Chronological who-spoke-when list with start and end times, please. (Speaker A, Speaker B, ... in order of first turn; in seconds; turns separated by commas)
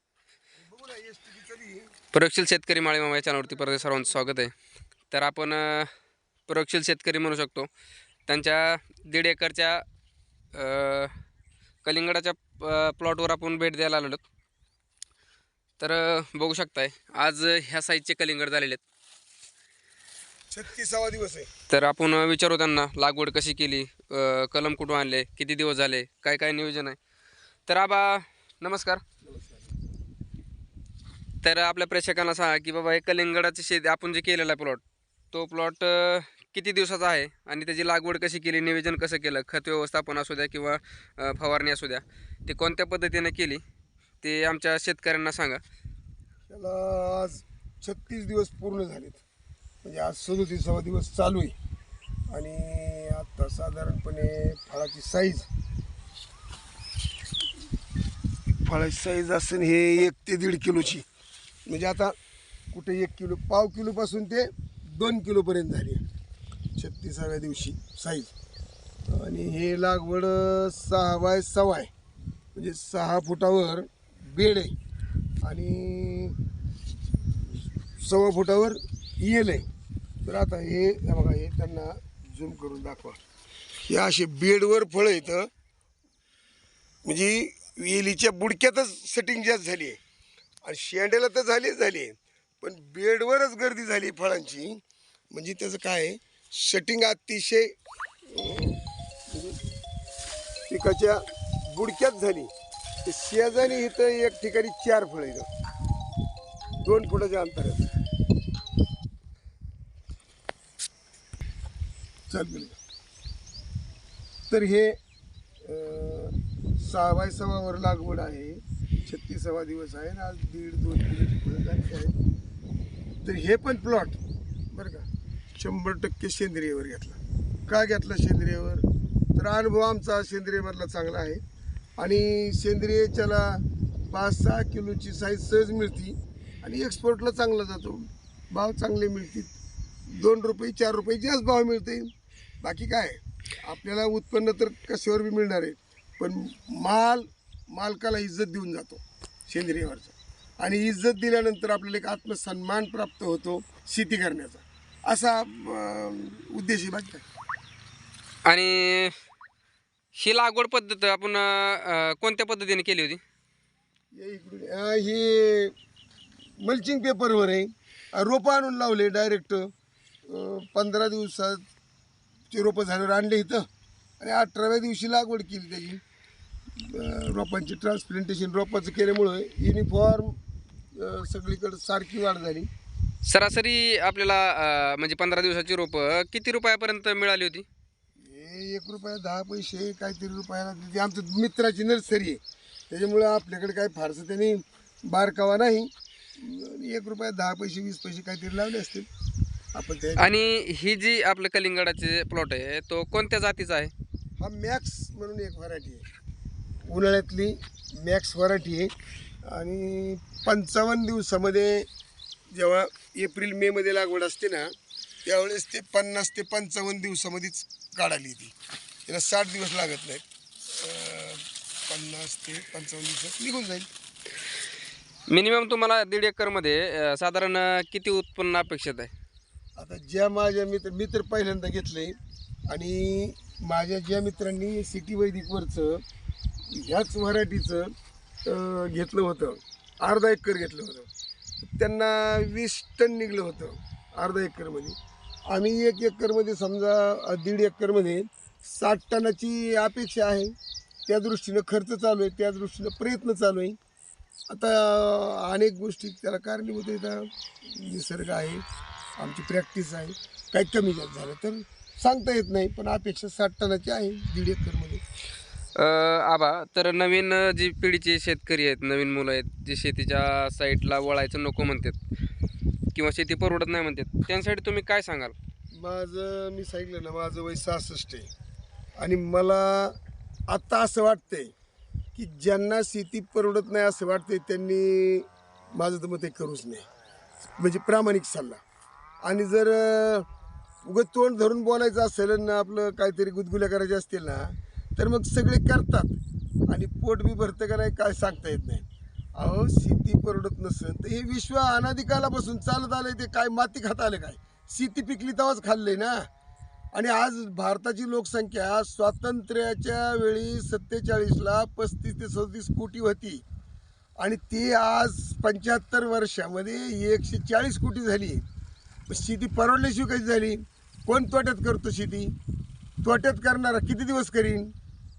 Speaker A: 0.6-1.9, Speaker B: 2.1-4.5, Speaker B: 5.1-5.9, Speaker B: 6.5-7.7, Speaker B: 8.3-9.8, Speaker B: 10.5-11.1, Speaker B: 11.8-14.2, Speaker B: 15.8-18.8, Speaker A: 20.5-21.5, Speaker B: 21.7-27.0, Speaker B: 27.7-29.0, Speaker A: 29.2-29.8, Speaker B: 31.4-43.6, Speaker B: 44.2-45.6, Speaker A: 46.5-49.2, Speaker A: 49.8-51.5, Speaker A: 52.3-55.5, Speaker A: 58.6-61.0, Speaker A: 61.6-62.1, Speaker A: 62.7-66.0, Speaker A: 66.8-68.3, Speaker A: 69.1-71.9, Speaker A: 72.5-74.7, Speaker A: 75.4-76.3, Speaker A: 78.0-79.7, Speaker A: 80.2-83.2, Speaker A: 83.9-85.5, Speaker A: 87.0-90.0, Speaker A: 90.6-97.7, Speaker A: 98.3-99.6, Speaker A: 100.7-102.5, Speaker A: 103.0-105.5, Speaker A: 106.8-107.9, Speaker A: 112.3-112.8, Speaker A: 114.5-115.0, Speaker A: 115.6-122.1, Speaker A: 123.2-124.2, Speaker A: 124.7-131.4, Speaker A: 132.0-139.5, Speaker A: 140.1-142.1, Speaker A: 142.6-157.2, Speaker B: 158.4-159.1, Speaker B: 160.1-163.2, Speaker A: 164.1-165.7, Speaker A: 166.6-169.7, Speaker A: 170.3-171.6, Speaker A: 172.5-173.7, Speaker A: 174.2-176.0, Speaker A: 176.8-180.4, Speaker A: 180.9-182.7, Speaker B: 183.2-187.7, Speaker A: 188.2-199.1, Speaker A: 199.7-200.3, Speaker B: 200.2-203.9, Speaker A: 204.4-206.0, Speaker A: 206.9-208.9, Speaker A: 209.4-211.9, Speaker A: 212.5-214.7, Speaker A: 215.2-218.5, Speaker A: 219.1-223.9, Speaker B: 225.3-229.1, Speaker A: 229.8-236.0, Speaker A: 236.7-237.9, Speaker A: 238.4-241.1, Speaker A: 241.6-245.0, Speaker A: 245.5-250.5, Speaker A: 251.1-253.8, Speaker A: 254.5-258.6, Speaker A: 259.2-265.0, Speaker B: 265.8-272.0, Speaker B: 272.9-275.3, Speaker A: 275.7-278.3, Speaker A: 279.0-280.0, Speaker A: 280.5-281.5, Speaker A: 282.1-286.9, Speaker A: 287.6-288.6, Speaker A: 289.2-290.3, Speaker A: 290.8-306.3, Speaker A: 306.9-313.4, Speaker A: 314.2-318.4, Speaker A: 319.1-322.4, Speaker A: 323.0-324.7